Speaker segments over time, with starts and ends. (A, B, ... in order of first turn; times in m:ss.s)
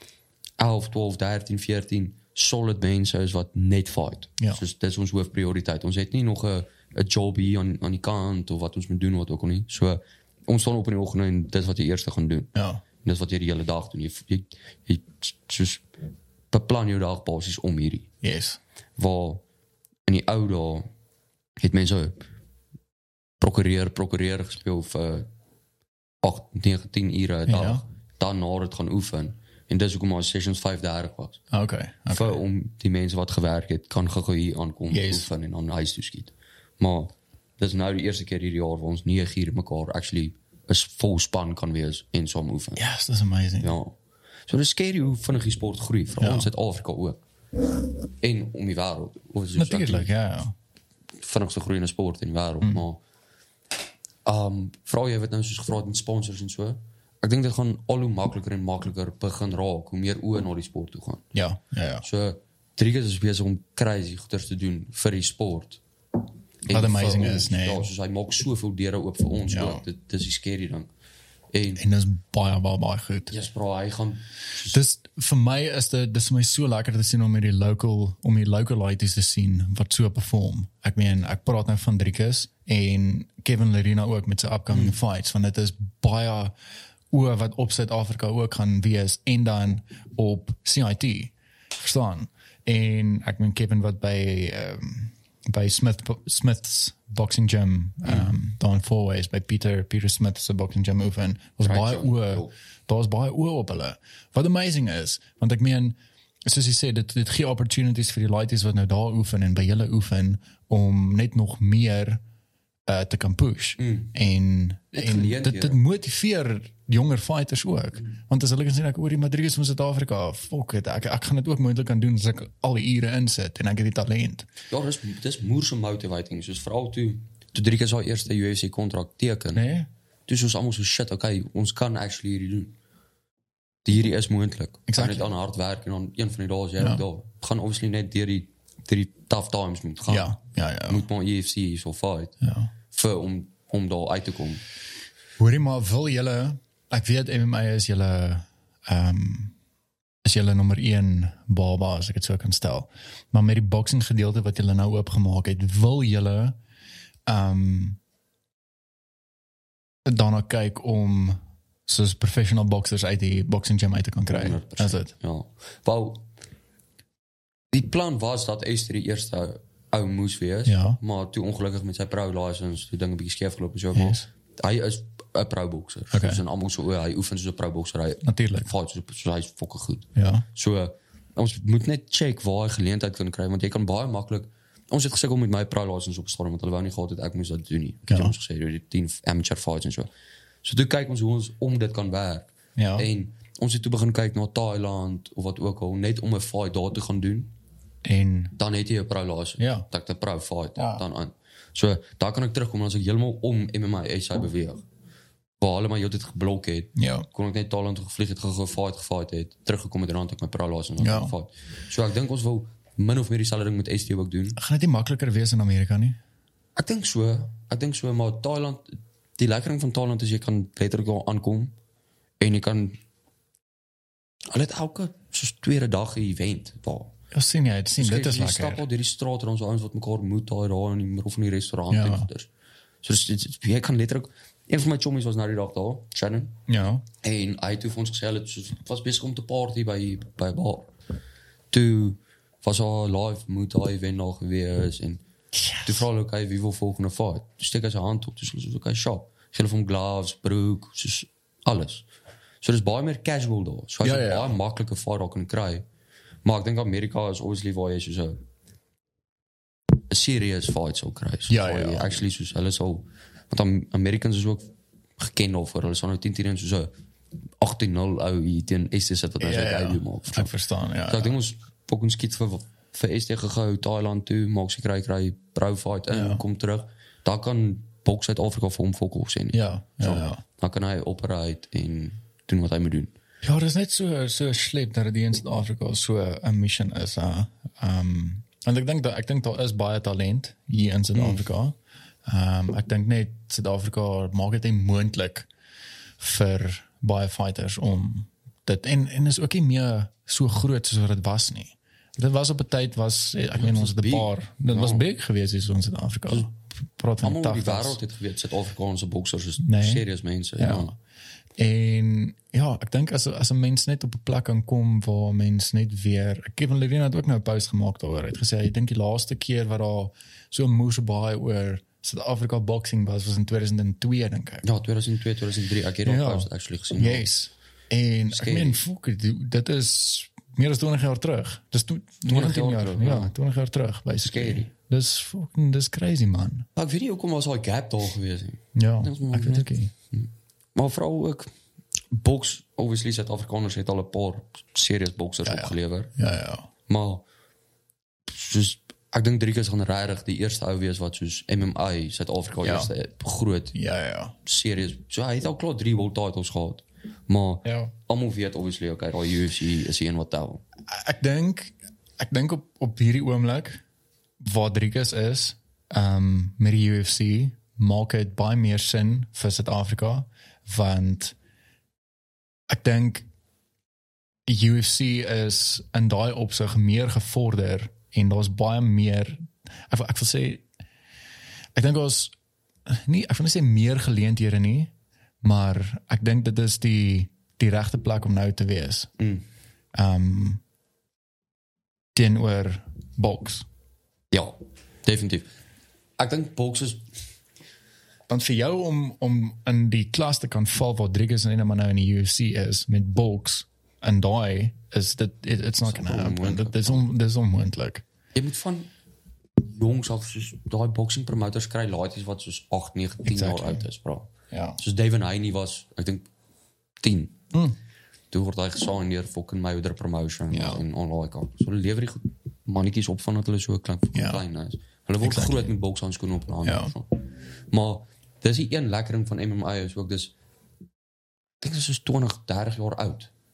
0:00.6-0:15.8 A
0:12.6-0:12.8 B
0:16.5-0:18.1 A
0:18.2-0:18.6 B
0:19.0-0:19.4 A
0:20.1-0:20.9 A
0:21.6-0:22.2 A
0:23.4-0:25.3 A
0:26.2-0:31.4 A
0:27.5-0:27.8 B
0:31.5-0:32.4 B
0:32.1-0:42.8 A
0:34.9-0:35.3 B
0:42.8-0:43.8 B
0:43.6-0:43.9 A
0:44.5-0:47.2 A
0:46.2-0:46.5 B
0:48.2-0:50.1 A
0:49.6-0:50.5 B
0:51.2-0:53.0 A
0:54.3-1:01.3 A
1:01.3-1:02.0 B
1:02.0-1:05.8 A
1:06.6-1:10.9 A
1:06.7-1:07.9 B
1:09.5-1:09.8 B
1:11.5-1:11.8 A
1:11.8-1:13.3 B
1:13.3-1:14.8 A
1:14.7-1:26.6 B
1:24.7-1:25.0 A
1:27.1-1:52.2 B
1:38.0-1:38.3 A
1:41.6-1:42.5 A
1:52.9-2:04.4 B
1:53.8-1:54.1 A
1:54.9-1:55.8 A
2:04.7-2:09.6 A
2:09.5-2:09.9 B
2:10.3-2:12.7 A
2:13.8-2:22.4 A
2:14.9-2:15.3 B
2:20.1-2:21.0 B
2:22.4-2:22.7 B
2:22.9-2:24.6 A
2:25.4-2:29.6 B
2:30.2-2:36.6 B
2:37.3-2:38.0 B
2:40.0-2:45.1 B
2:44.3-2:46.3 A
2:47.7-3:10.1 A
2:50.6-2:51.0 B
2:53.9-2:54.2 B
2:56.1-2:56.4 B
2:58.2-2:58.7 B
3:00.2-3:00.4 B
3:08.1-3:08.3 B
3:10.6-3:17.5 A
3:12.8-3:13.1 B
3:18.0-3:18.6 B
3:18.6-3:24.8 A
3:19.6-3:19.8 B
3:20.8-3:21.0 B
3:25.6-3:34.6 A
3:27.0-3:27.3 B
3:31.0-3:31.3 B
3:34.6-3:36.2 B
3:36.8-3:41.7 A
3:42.4-3:43.0 A
3:44.5-3:47.1 A
3:47.3-3:48.8 B
3:48.0-3:52.5 A
3:51.9-3:52.3 B
3:53.0-3:56.6 A
3:56.7-3:57.0 B
3:57.2-4:00.9 A
4:01.7-4:05.2 A
4:05.5-4:06.1 B
4:05.8-4:12.1 A
4:12.6-4:15.8 A
4:14.0-4:14.5 B
4:16.4-4:18.4 A
4:20.1-4:24.6 A
4:21.5-4:22.2 B
4:25.2-4:26.9 A
4:27.6-4:30.5 A
4:29.4-4:31.3 B
4:31.1-4:43.1 A
4:36.1-4:36.4 B
4:39.5-4:40.4 B
4:43.4-4:55.5 B
4:51.1-4:51.4 A
4:56.2-5:08.0 B
5:03.6-5:05.0 A
5:07.2-5:10.9 A
5:09.6-5:10.0 B
5:10.6-5:10.9 B
5:11.6-5:24.6 B
5:24.6-5:27.3 A
5:26.0-5:36.7 B
5:28.3-5:28.8 A
5:32.3-5:33.3 A
5:34.2-5:34.7 A
5:36.8-5:41.5 A
5:38.7-5:39.9 B
5:42.1-5:46.1 A
5:45.4-5:46.7 B
5:46.9-5:47.2 A
5:48.3-5:53.8 A
5:52.6-5:52.9 B
5:53.7-5:54.3 B
5:54.4-6:00.6 A
5:57.6-5:57.9 B
6:00.9-6:03.8 B
6:04.4-6:11.4 B
6:12.7-6:13.3 B
6:14.5-6:20.6 B
6:21.7-6:22.3 B
6:22.9-6:29.1 B
6:29.2-6:29.4 A
6:29.9-6:30.6 B
6:32.1-6:33.6 B
6:34.3-6:35.5 A
6:36.2-6:37.1 A
6:38.3-6:48.0 B
6:45.8-6:47.1 A
6:48.4-6:48.9 A
6:49.6-6:56.3 A
6:53.3-6:53.8 B
6:54.5-6:54.8 B
6:57.0-6:57.4 A
6:58.3-7:10.3 A
7:00.5-7:00.8 B
7:04.1-7:04.4 B
7:05.2-7:05.7 B
7:06.6-7:06.9 B
7:11.6-7:13.3 A